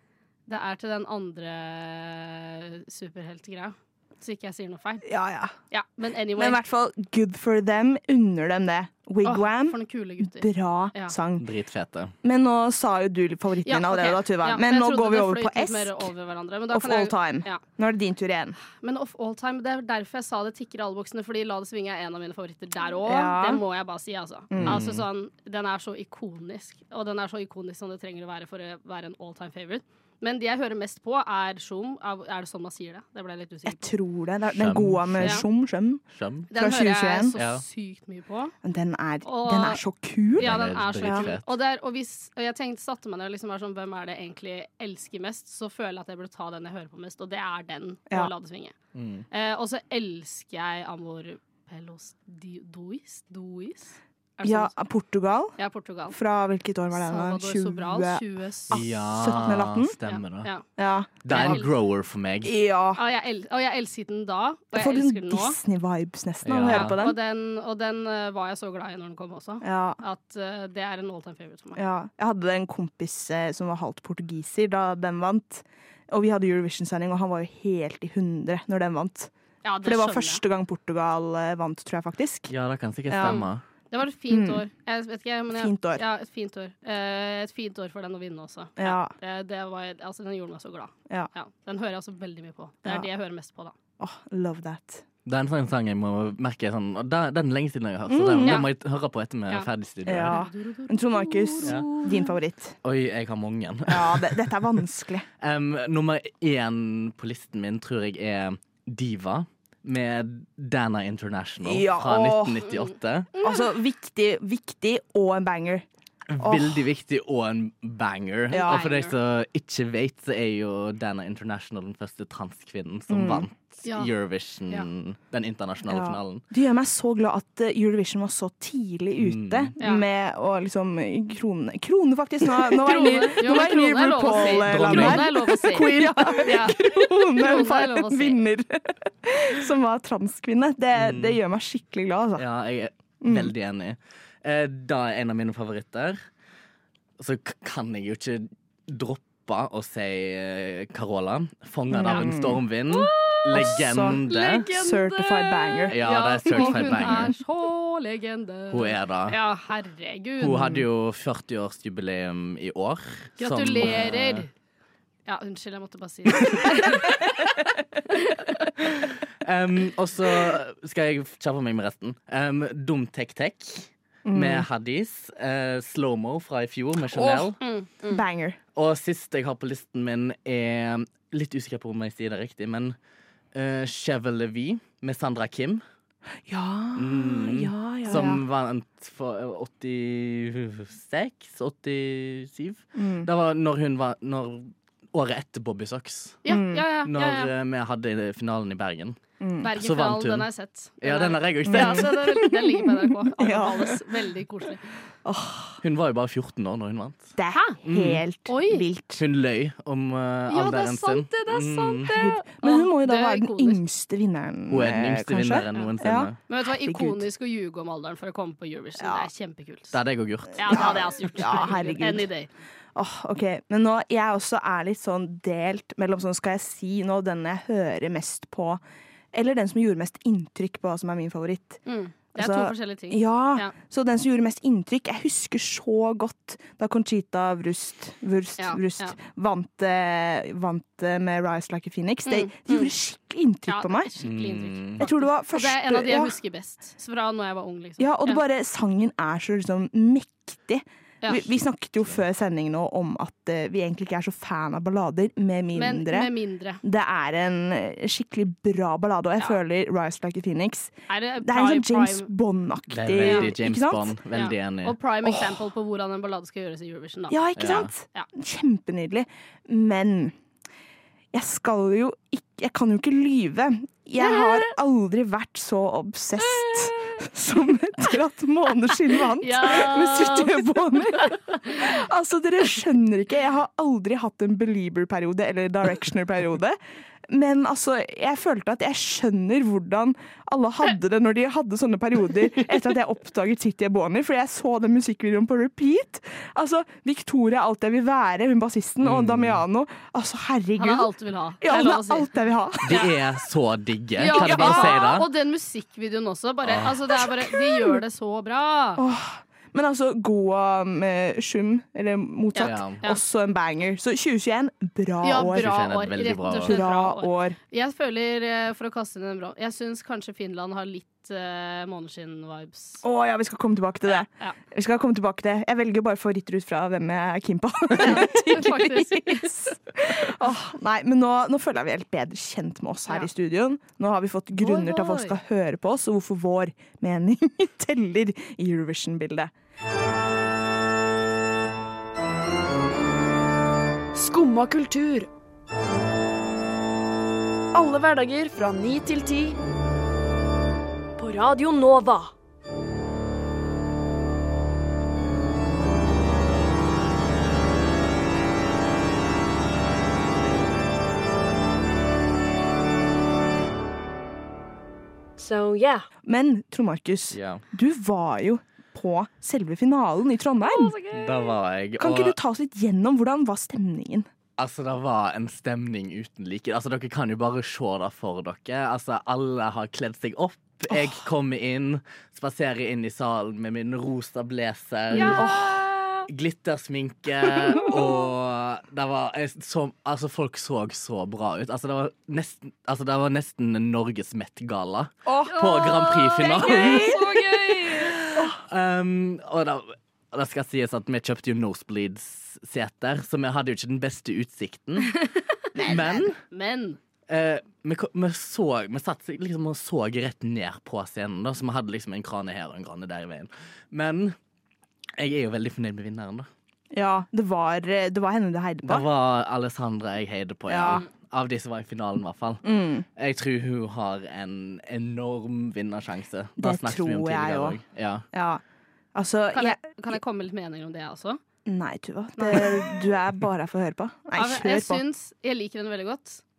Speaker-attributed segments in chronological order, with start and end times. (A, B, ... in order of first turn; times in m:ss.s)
0:00.5-0:05.1 A
0:05.0-0:05.5 B
0:05.7-0:06.6 A
0:06.4-0:11.5 B
0:09.2-0:11.2 A
0:11.4-0:12.1 C
0:12.2-0:16.1 B
0:13.6-0:17.6 A
0:16.7-0:18.6 B
0:18.7-0:33.9 A
0:23.0-0:23.6 B
0:24.5-0:24.8 B
0:24.6-0:25.1 C
0:33.7-0:37.4 B
0:34.6-0:35.4 C
0:36.1-0:36.5 C
0:36.5-0:38.5 A
0:37.4-0:37.6 C
0:38.6-0:41.3 B
0:39.2-0:39.8 A
0:40.4-0:48.8 A
0:40.4-0:41.6 C
0:48.9-0:49.3 C
0:49.3-0:54.7 A
0:54.4-0:55.6 B
0:55.6-0:56.2 A
0:56.1-1:00.0 B
0:56.9-0:58.8 A
0:58.7-1:00.5 C
1:00.1-1:00.6 A
1:00.8-1:01.6 B
1:01.2-1:02.5 C
1:01.3-1:01.7 A
1:02.4-1:03.0 B
1:03.0-1:05.6 A
1:04.7-1:07.2 B
1:06.4-1:07.0 C
1:06.7-1:11.8 A
1:09.6-1:10.0 B
1:11.8-1:19.3 B
1:19.6-1:20.4 A
1:19.8-1:22.5 B
1:22.5-1:23.6 C
1:23.1-1:23.4 B
1:23.2-1:33.8 A
1:24.3-1:24.6 B
1:25.5-1:26.0 B
1:28.8-1:29.1 B
1:34.0-1:35.0 B
1:35.3-1:40.4 C
1:38.1-1:38.6 B
1:40.1-1:42.8 B
1:40.2-1:42.3 A
1:42.8-1:44.5 C
1:43.9-1:45.3 B
1:45.4-1:53.3 C
1:51.6-1:52.7 B
1:53.3-1:53.7 A
1:53.4-1:55.8 B
1:56.3-2:06.4 C
1:56.4-1:56.9 B
1:58.5-1:58.9 B
1:58.6-1:59.1 A
2:03.1-2:03.5 B
2:03.8-2:04.1 A
2:05.9-2:22.4 B
2:09.2-2:09.7 C
2:12.7-2:18.4 A
2:14.6-2:16.4 C
2:21.0-2:21.4 C
2:22.4-2:26.2 C
2:23.2-2:23.5 B
2:27.2-2:34.7 C
2:31.9-2:32.6 B
2:32.9-2:40.7 A
2:33.5-2:37.3 B
2:35.9-2:37.3 C
2:38.7-2:39.4 C
2:40.4-2:44.4 C
2:40.4-2:40.8 B
2:43.4-2:44.5 A
2:45.3-2:47.6 A
2:48.1-2:48.7 A
2:49.4-2:57.6 C
2:54.2-2:54.7 B
2:57.1-2:57.5 B
2:57.6-2:58.2 A
2:58.1-2:58.6 B
2:58.8-3:03.0 C
3:03.5-3:05.8 C
3:06.5-3:08.4 B
3:07.0-3:16.4 C
3:13.0-3:13.3 B
3:16.4-3:17.5 A
3:16.5-3:16.8 B
3:17.0-3:19.2 C
3:19.4-3:19.7 B
3:19.6-3:24.9 A
3:19.8-3:20.5 C
3:21.0-3:22.2 C
3:21.7-3:24.0 B
3:25.2-3:25.8 B
3:25.8-3:27.3 C
3:27.4-3:29.2 B
3:27.5-3:27.8 A
3:27.8-3:28.2 C
3:28.5-3:28.8 A
3:29.2-3:32.1 C
3:30.5-3:33.8 A
3:32.1-3:37.3 B
3:34.7-3:36.4 C
3:36.5-3:40.0 A
3:39.0-3:39.3 B
3:39.9-3:41.0 C
3:40.6-3:42.5 A
3:40.7-3:42.3 B
3:43.0-3:48.8 B
3:49.3-3:51.8 B
3:51.9-3:53.7 A
3:52.4-4:04.1 B
3:58.6-3:59.2 A
4:02.3-4:02.9 A
4:03.7-4:08.4 A
4:04.2-4:05.0 C
4:05.0-4:06.4 B
4:08.0-4:24.2 B
4:15.7-4:16.8 A
4:21.1-4:22.3 A
4:22.9-4:25.0 C
4:23.2-4:23.5 A
4:24.3-4:28.3 A
4:25.2-4:25.6 B
4:27.3-4:30.4 B
4:27.6-4:27.9 C
4:31.3-5:03.1 B
4:34.2-4:34.7 A
4:36.4-4:37.3 A
4:39.4-4:42.0 A
4:59.0-4:59.6 C
5:00.8-5:02.3 A
5:02.8-5:05.3 C
5:04.2-5:09.0 A
5:04.3-5:05.1 B
5:06.7-5:06.9 C
5:07.2-5:08.0 B
5:09.0-5:15.7 B
5:12.5-5:13.2 A
5:12.6-5:13.0 C
5:15.2-5:23.0 A
5:15.5-5:16.8 C
5:16.5-5:17.6 B
5:23.0-5:39.5 B
5:28.0-5:29.7 A
5:34.6-5:35.4 A
5:44.2-5:45.3 D
5:47.7-5:49.6 D
5:51.2-5:52.3 D
6:05.4-6:06.1 D
6:06.2-6:11.0 B
6:07.3-6:07.6 C
6:10.6-6:11.5 A
6:11.1-6:12.4 C
6:12.0-6:14.3 B
6:14.6-6:25.5 C
6:20.9-6:21.2 B
6:25.1-6:26.3 A
6:25.1-6:25.9 B
6:26.3-6:37.3 C
6:35.3-6:35.6 B
6:35.4-6:38.4 A
6:36.4-6:37.3 B
6:37.8-6:45.2 C
6:45.8-6:46.3 B
6:45.8-6:46.4 C
6:45.8-6:47.0 A
6:47.3-6:54.4 C
6:55.2-6:56.5 C
6:56.9-6:59.1 B
6:58.8-7:02.7 C
7:00.7-7:01.0 B
7:02.6-7:03.1 B
7:03.2-7:08.2 C
7:06.6-7:07.8 B
7:08.3-7:08.6 B
7:09.2-7:10.2 B
7:09.5-7:11.4 A
7:11.7-7:15.0 B
7:12.4-7:12.8 A
7:14.4-7:16.4 A